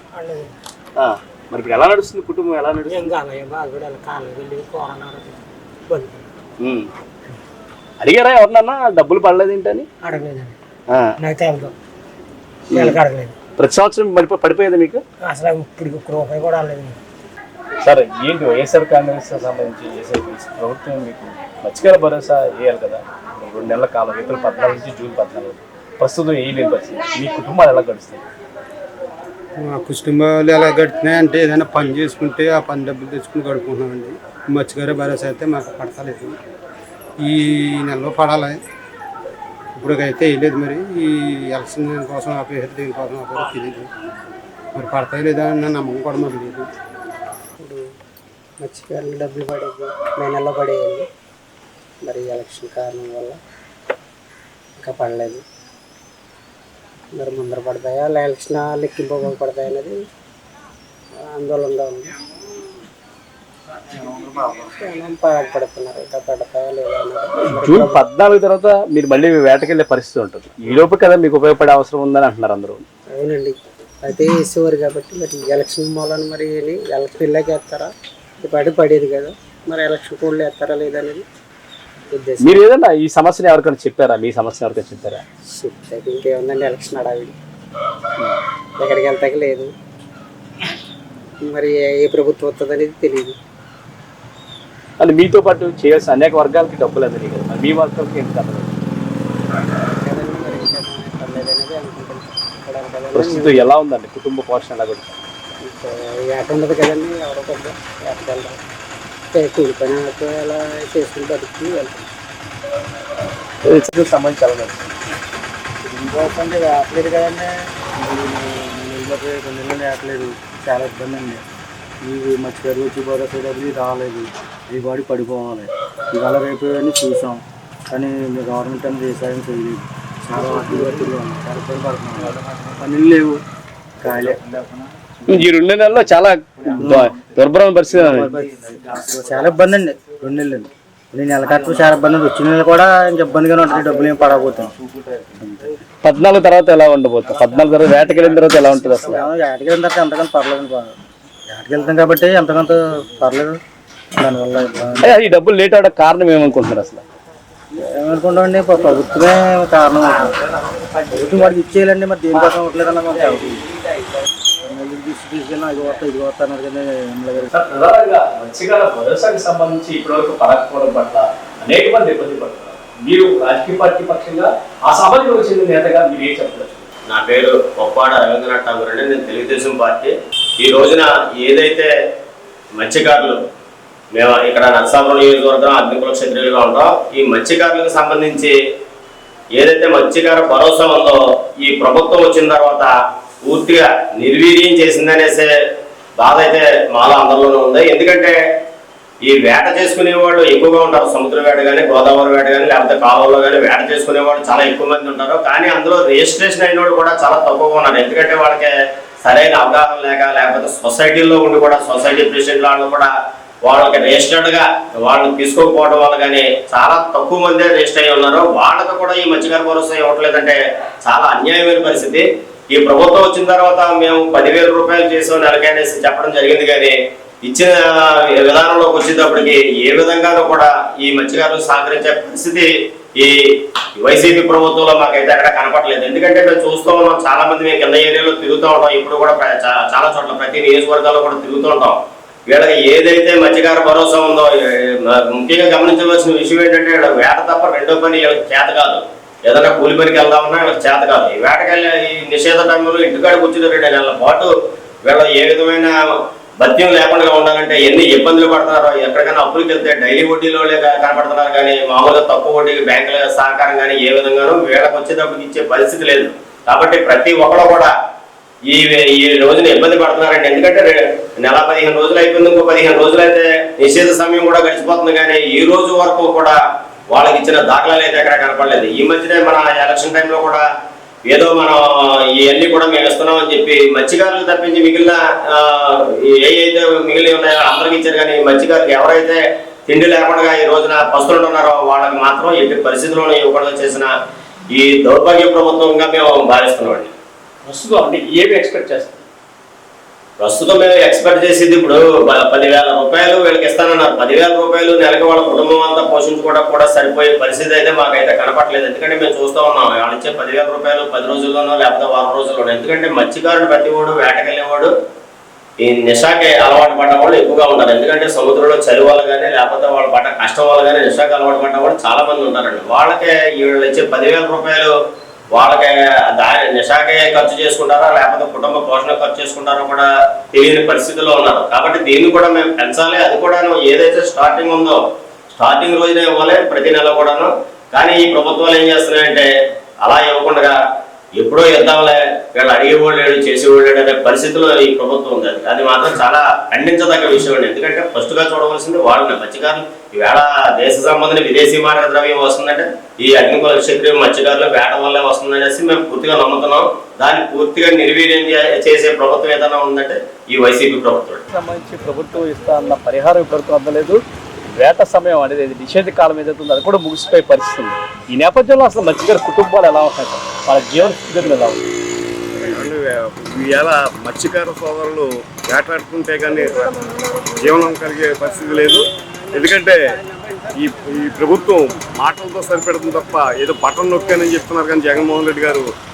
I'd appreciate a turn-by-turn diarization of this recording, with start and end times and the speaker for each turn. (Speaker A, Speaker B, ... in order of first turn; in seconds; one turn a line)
Speaker A: 0.1-0.5
Speaker B: 1.0-3.1
Speaker A: 2.9-6.3
Speaker B: 6.6-6.9
Speaker B: 8.0-9.9
Speaker A: 10.0-10.6
Speaker A: 11.2-11.7
Speaker B: 12.7-13.0
Speaker A: 12.7-13.4
Speaker B: 13.6-15.0
Speaker A: 15.2-17.0
Speaker B: 17.8-28.2
Speaker C: 29.6-36.4
Speaker C: 37.2-38.6
Speaker C: 39.8-43.9
Speaker C: 44.8-46.7
Speaker A: 48.6-51.1
Speaker A: 52.0-53.4
Speaker A: 54.8-55.4
Speaker A: 57.2-60.0
Speaker A: 61.3-62.1
Speaker A: 64.8-68.0
Speaker B: 67.5-72.8
Speaker A: 73.2-77.9
Speaker A: 78.4-81.2
Speaker A: 82.1-82.6
Speaker B: 82.4-85.2
Speaker A: 85.5-87.4
Speaker A: 88.8-89.7
Speaker A: 91.4-93.4
Speaker B: 95.0-98.8
Speaker A: 100.0-103.7
Speaker B: 103.1-105.2
Speaker A: 105.6-108.6
Speaker A: 109.3-112.1
Speaker B: 113.7-114.9
Speaker D: 115.8-121.4
Speaker D: 122.0-133.4
Speaker D: 134.0-134.8
Speaker B: 135.3-138.3
Speaker D: 136.8-137.2
Speaker D: 137.9-144.8
Speaker B: 146.0-149.3
Speaker D: 148.9-150.9
Speaker D: 151.5-153.6
Speaker D: 154.2-155.1
Speaker B: 155.0-157.0
Speaker D: 157.8-160.3
Speaker D: 161.1-163.7
Speaker D: 164.6-167.5
Speaker B: 167.5-176.9
Speaker E: 177.1-181.9
Speaker E: 182.8-183.4
Speaker E: 184.2-188.5
Speaker E: 189.6-192.9
Speaker E: 193.4-195.5
Speaker E: 196.2-198.4
Speaker E: 199.2-208.7
Speaker E: 209.2-213.1
Speaker E: 213.7-233.3
Speaker E: 234.0-242.0
Speaker E: 242.5-254.5
Speaker E: 255.1-255.9
Speaker E: 256.6-267.9
Speaker E: 268.7-276.6
Speaker E: 277.1-280.6
Speaker E: 281.3-294.1
Speaker E: 294.7-297.1
Speaker B: 297.6-299.2
Speaker E: 300.4-314.9
Speaker E: 315.8-324.9
Speaker E: 325.5-335.0
Speaker E: 335.5-339.5
Speaker E: 340.0-340.8
Speaker E: 341.4-361.4
Speaker B: 361.5-364.2
Speaker B: 364.7-371.9
Speaker F: 372.6-376.8
Speaker F: 377.6-380.2
Speaker F: 380.8-385.9